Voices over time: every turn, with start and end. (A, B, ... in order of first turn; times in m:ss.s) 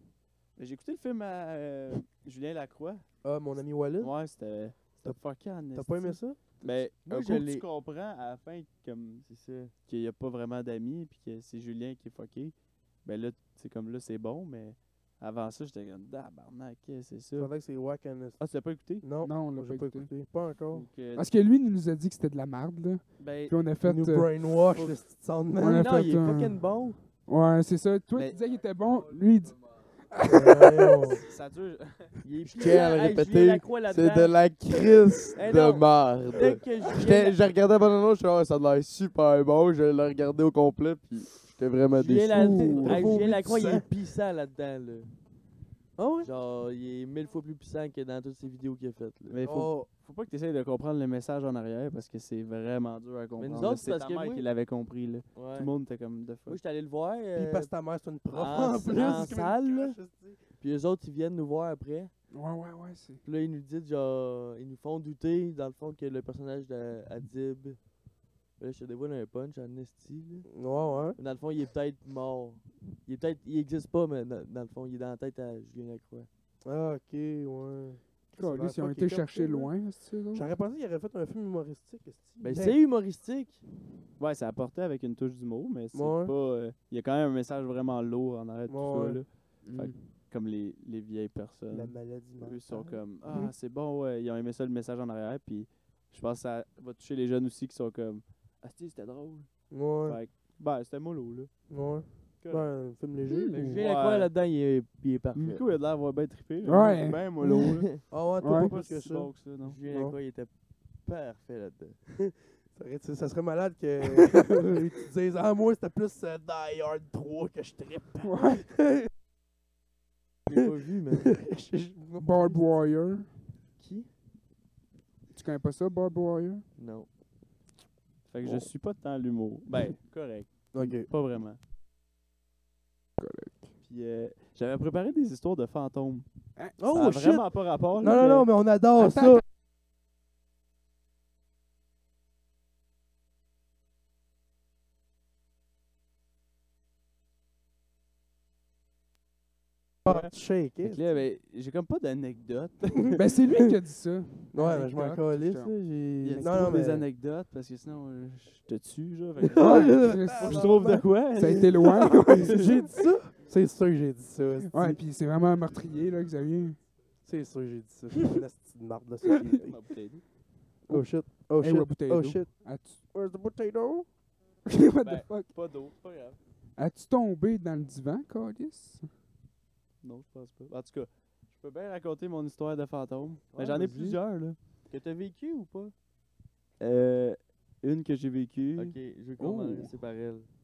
0:00.6-0:03.0 A
0:03.2-0:04.1 B
0:04.0-0:09.2 A
0:05.7-0:06.4 B
0:06.7-0:07.6 C
0:09.2-0:09.7 C
0:09.9-0:12.5 A
0:13.0-0:17.5 A
0:17.4-0:18.4 B
0:18.4-0:19.0 A
0:19.0-0:20.9 B
0:19.2-0:20.1 D
0:20.7-0:21.3 A
0:21.1-0:24.6 D
0:23.2-0:23.6 A
0:23.8-0:26.1 B
0:25.6-0:26.6 D
0:25.6-0:27.0 C
0:27.3-0:31.2 D
0:30.3-0:31.2 B
0:31.3-0:32.1 A
0:32.2-0:34.6 C
0:32.5-0:42.7 E
0:35.3-0:37.4 C
0:41.9-0:45.1 C
0:42.3-0:43.1 D
0:42.7-0:43.9 B
0:46.0-0:46.3 B
0:46.2-0:49.4 C
0:49.3-0:56.6 A
0:49.4-0:49.9 B
0:53.4-0:54.5 C
0:55.4-0:55.7 C
0:56.5-0:57.7 C
0:57.4-1:00.4 B
0:58.3-1:00.0 C
1:00.6-1:02.1 C
1:02.3-1:03.2 D
1:03.2-1:07.9 C
1:08.6-1:10.5 C
1:10.5-1:11.2 B
1:11.2-1:16.3 C
1:16.6-1:19.7 B
1:18.4-1:20.5 D
1:20.3-1:22.8 B
1:22.4-1:23.6 C
1:24.2-1:39.5 A
1:25.9-1:26.3 B
1:28.7-1:29.2 B
1:29.6-1:30.0 D
1:31.7-1:33.0 B
1:39.7-1:40.2 B
1:40.0-1:41.5 A
1:41.7-1:43.8 B
1:42.4-1:42.6 A
1:43.3-1:43.6 D
1:43.5-1:45.6 C
1:43.8-1:44.3 A
1:45.4-1:49.8 A
1:46.6-1:47.8 D
1:48.1-1:49.3 B
1:48.4-1:48.7 D
1:49.6-1:52.0 C
1:49.9-1:50.2 B
1:52.7-1:59.1 B
1:58.2-1:58.6 D
2:00.5-2:01.3 C
2:01.2-2:02.7 B
2:02.2-2:03.3 D
2:03.8-2:04.1 C
2:05.3-2:06.6 D
2:06.8-2:07.1 C
2:08.3-2:11.6 A
2:10.7-2:11.1 B
2:13.2-2:13.7 D
2:13.8-2:16.3 A
2:16.8-2:19.4 B
2:16.9-2:18.5 A
2:19.0-2:19.4 D
2:30.0-2:30.3 A
2:30.0-2:31.1 B
2:30.8-2:33.2 A
2:33.1-2:35.7 D
2:34.5-2:37.0 B
2:36.2-2:42.9 A
2:36.3-2:36.8 D
2:39.4-2:45.0 B
2:39.6-2:42.7 D
2:44.7-2:46.8 D
2:47.2-2:49.8 B
2:49.6-2:50.2 A
2:50.9-2:52.5 B
2:50.9-2:53.0 D
2:53.1-2:54.1 B
2:54.7-2:55.5 D
2:55.0-2:56.4 A
2:56.8-2:59.1 D
3:00.0-3:04.6 A
3:03.5-3:04.2 C
3:04.9-3:05.9 C
3:06.8-3:09.0 A
3:08.8-3:10.5 C